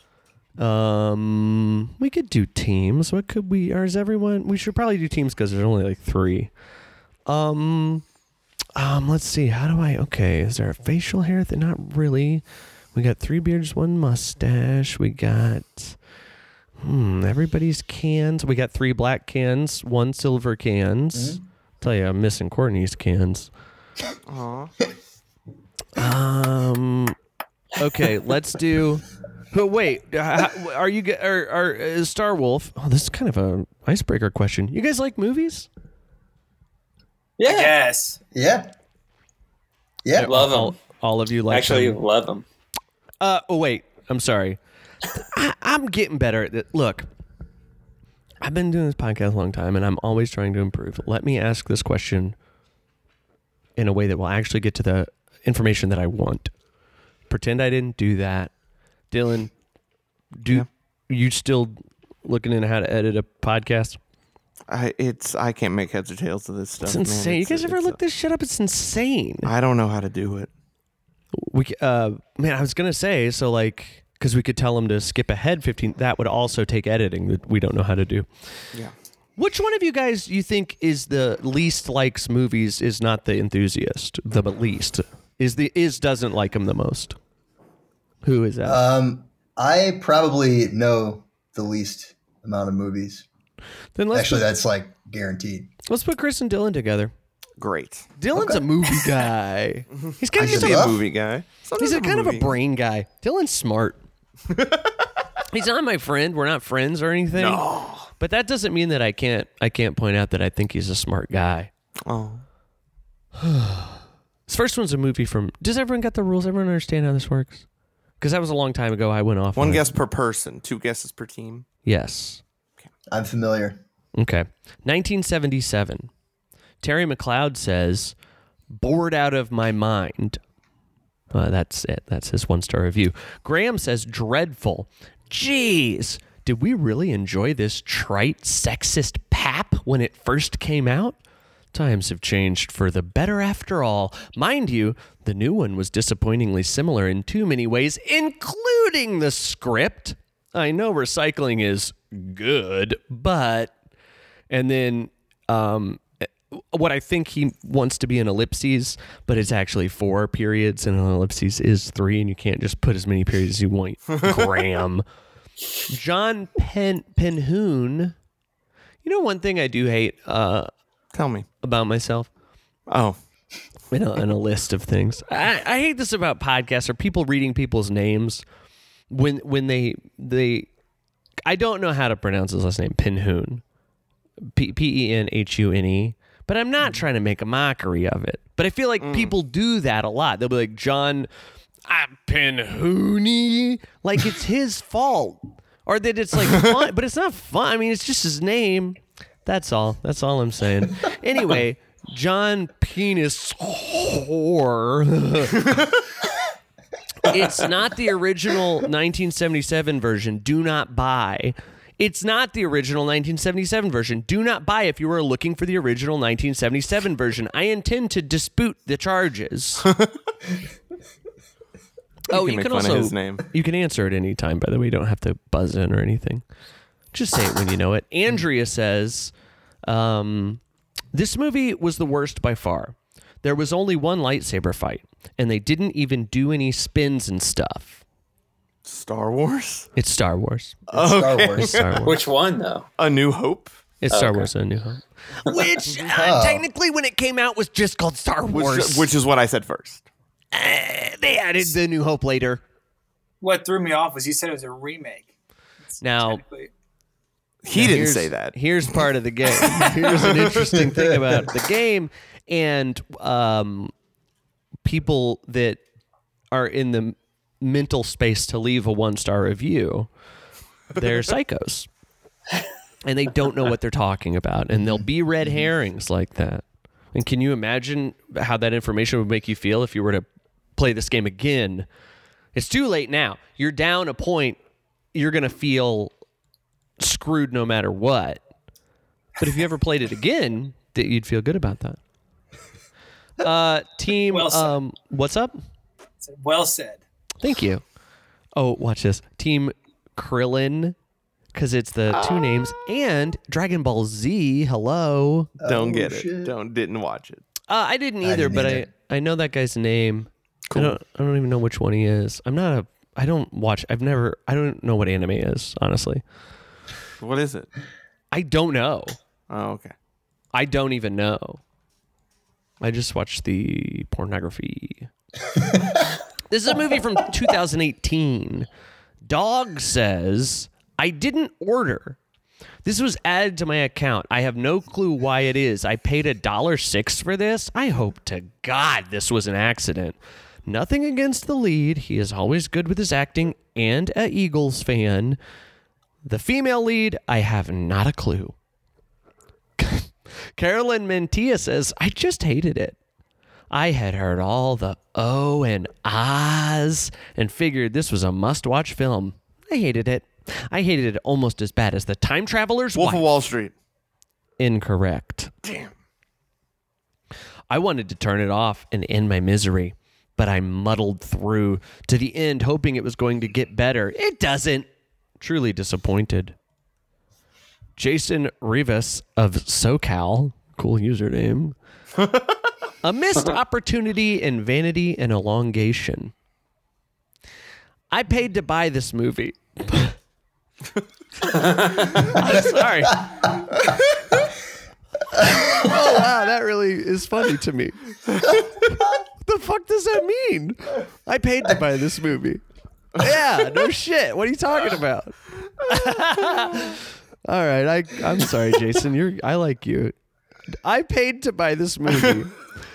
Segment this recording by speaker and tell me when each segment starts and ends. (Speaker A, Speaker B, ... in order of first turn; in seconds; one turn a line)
Speaker A: 0.6-6.5
Speaker A: 7.3-8.1
Speaker A: 8.8-12.4
Speaker A: 12.9-16.0
Speaker A: 16.8-23.5
Speaker B: 21.1-21.4
Speaker C: 24.3-24.8
Speaker A: 25.9-27.2
Speaker A: 27.8-35.7
Speaker D: 37.4-37.8
Speaker E: 37.4-38.2
Speaker B: 38.3-38.7
Speaker B: 40.0-40.3
Speaker A: 40.2-42.0
Speaker D: 40.2-40.8
Speaker D: 41.5-42.5
Speaker A: 43.2-44.6
Speaker A: 45.1-47.1
Speaker A: 48.4-52.4
Speaker A: 53.8-56.5
Speaker A: 57.3-58.5
Speaker A: 59.1-59.5
Speaker A: 60.4-64.0
Speaker C: 64.7-68.0
Speaker A: 66.8-69.5
Speaker C: 69.5-70.5
Speaker A: 71.3-78.3
Speaker A: 79.4-87.2
Speaker A: 88.2-88.8
Speaker B: 88.7-93.3
Speaker A: 94.0-94.5
Speaker B: 94.1-95.7
Speaker A: 95.9-97.1
Speaker C: 97.6-98.1
Speaker A: 98.2-101.0
Speaker B: 98.3-98.7
Speaker C: 100.1-102.6
Speaker B: 100.4-101.0
Speaker A: 101.8-104.0
Speaker C: 104.5-104.9
Speaker A: 105.5-107.7
Speaker C: 107.3-108.1
Speaker A: 108.2-111.7
Speaker C: 112.1-112.4
Speaker A: 113.4-117.7
Speaker A: 118.2-119.9
Speaker C: 119.6-121.7
Speaker A: 121.8-122.4
Speaker B: 123.1-123.8
Speaker A: 124.2-126.1
Speaker A: 126.8-128.2
Speaker A: 128.7-130.4
Speaker A: 131.3-141.2
Speaker A: 141.7-153.7
Speaker A: 154.5-165.0
Speaker A: 165.9-168.2
Speaker A: 169.0-170.7
Speaker C: 171.1-171.5
Speaker A: 171.6-172.3
Speaker C: 172.9-173.2
Speaker A: 173.9-178.4
Speaker A: 179.1-180.7
Speaker A: 181.5-183.6
Speaker A: 184.5-191.3
Speaker C: 189.0-189.3
Speaker A: 191.9-205.7
Speaker A: 207.2-219.9
Speaker A: 222.3-226.4
Speaker C: 222.3-223.4
Speaker A: 227.1-229.3
Speaker A: 229.8-230.6
Speaker A: 231.1-238.0
Speaker C: 238.8-239.9
Speaker A: 240.0-240.9
Speaker B: 240.9-241.9
Speaker C: 240.9-242.1
Speaker A: 241.5-242.2
Speaker D: 242.1-242.9
Speaker C: 243.0-243.8
Speaker A: 244.0-249.1
Speaker D: 244.1-244.5
Speaker B: 246.0-246.7
Speaker C: 248.5-250.1
Speaker A: 250.5-252.6
Speaker E: 253.4-255.3
Speaker E: 255.9-256.7
Speaker A: 256.0-256.4
Speaker C: 257.6-259.0
Speaker A: 257.7-263.9
Speaker C: 259.7-260.6
Speaker B: 260.7-261.4
Speaker A: 264.9-265.8
Speaker A: 266.5-270.1
Speaker A: 270.9-271.9
Speaker A: 273.1-281.9
Speaker B: 274.8-275.1
Speaker A: 282.5-284.6
Speaker A: 285.1-286.1
Speaker A: 287.0-288.4
Speaker A: 289.4-292.0
Speaker A: 293.4-295.6
Speaker E: 294.3-294.8
Speaker E: 296.2-297.0
Speaker A: 297.4-297.8
Speaker A: 298.6-300.9
Speaker A: 301.5-305.5
Speaker C: 302.1-302.5
Speaker B: 305.6-306.6
Speaker C: 305.6-307.4
Speaker A: 307.7-316.2
Speaker B: 308.2-308.9
Speaker C: 310.7-311.0
Speaker C: 317.2-317.7
Speaker A: 318.3-319.2
Speaker C: 319.5-319.9
Speaker A: 320.5-321.6
Speaker A: 322.8-325.1
Speaker A: 326.5-328.7
Speaker A: 329.3-332.2
Speaker A: 332.8-345.4
Speaker A: 346.2-348.6
Speaker A: 349.8-353.0
Speaker A: 353.7-363.3
Speaker C: 362.9-363.7
Speaker A: 364.6-365.5
Speaker C: 365.6-365.9
Speaker A: 367.7-374.9
Speaker A: 375.4-376.6
Speaker A: 378.0-381.8
Speaker C: 382.2-382.5
Speaker A: 383.0-386.3
Speaker A: 388.1-390.1
Speaker D: 391.5-392.2
Speaker A: 392.2-393.5
Speaker B: 393.4-394.0
Speaker A: 395.3-402.6
Speaker B: 395.5-395.9
Speaker A: 403.2-410.1
Speaker A: 410.8-412.6